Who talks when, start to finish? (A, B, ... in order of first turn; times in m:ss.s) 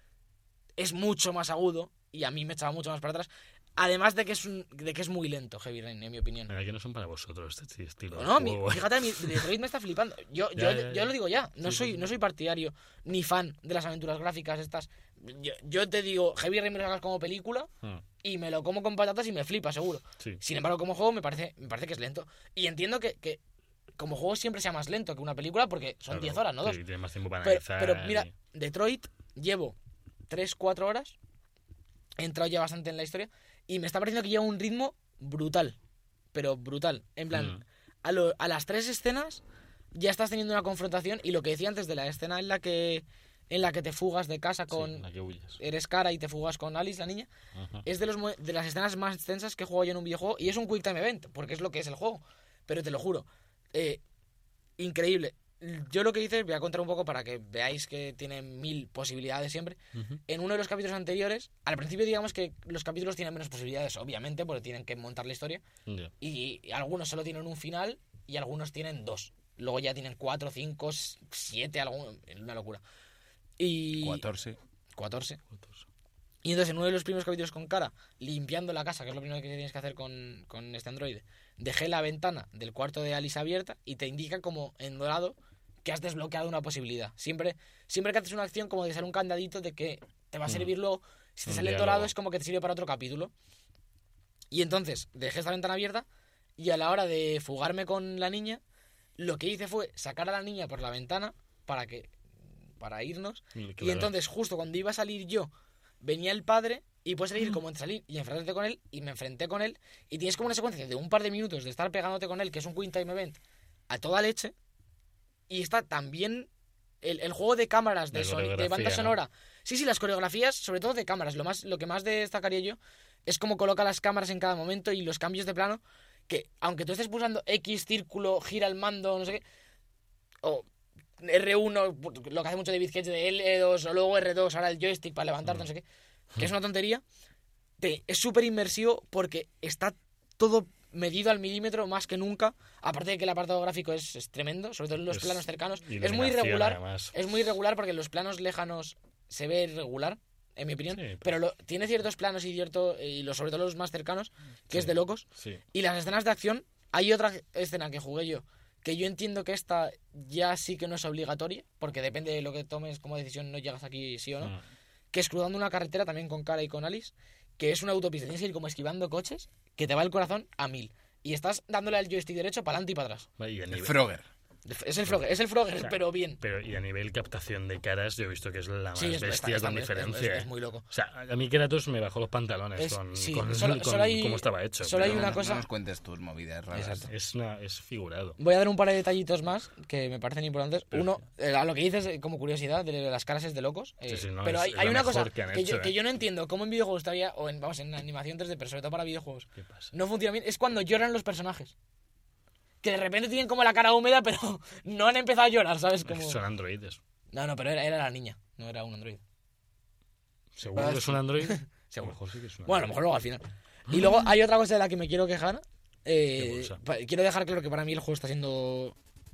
0:00.8-0:06.5 A
0:06.5-0:09.5 B
0:08.2-0:17.7 A
0:10.6-0:12.0 B
0:18.2-0:23.4 A
0:24.0-0:26.8 A
0:26.1-0:28.3 B
0:27.4-0:29.8 A
0:30.3-0:31.2 A
0:32.2-0:35.8 A
0:36.3-0:39.4 A
0:37.3-0:37.6 B
0:40.0-0:45.1 A
0:44.7-0:45.6 B
0:45.6-0:47.3 A
0:47.6-0:47.8 B
0:47.8-0:54.0 A
0:54.8-1:05.6 A
1:05.9-1:06.1 B
1:06.2-1:12.8 A
1:13.6-1:14.2 A
1:14.0-1:14.6 C
1:15.0-1:15.4 A
1:15.6-1:15.8 B
1:16.4-1:33.3 A
1:31.5-1:32.1 B
1:34.5-1:36.1 A
1:36.6-1:38.6 A
1:39.2-1:42.1 A
1:42.8-1:45.5 A
1:43.6-1:44.1 B
1:46.0-1:53.4 A
1:53.9-1:54.5 A
1:55.5-1:56.5 A
1:57.0-2:09.4 A
1:58.1-1:59.2 B
2:11.2-2:15.8 A
2:16.4-2:17.0 A
2:17.8-2:44.6 A
2:25.1-2:27.1 B
2:31.0-2:31.3 B
2:34.7-2:35.6 B
2:45.1-2:53.3 A
2:53.4-2:54.0 B
2:53.7-2:54.3 C
2:54.7-2:56.4 A
2:55.8-3:05.2 B
2:59.0-3:00.9 A
3:02.8-3:05.6 A
3:05.0-3:07.1 C
3:06.7-3:07.1 A
3:07.1-3:08.4 B
3:08.4-3:21.7 A
3:14.1-3:16.0 B
3:19.6-3:19.9 B
3:22.8-3:26.4 A
3:26.0-3:27.0 B
3:27.3-3:29.2 A
3:30.6-3:33.0 B
3:30.8-3:39.0 A
3:36.4-3:36.8 B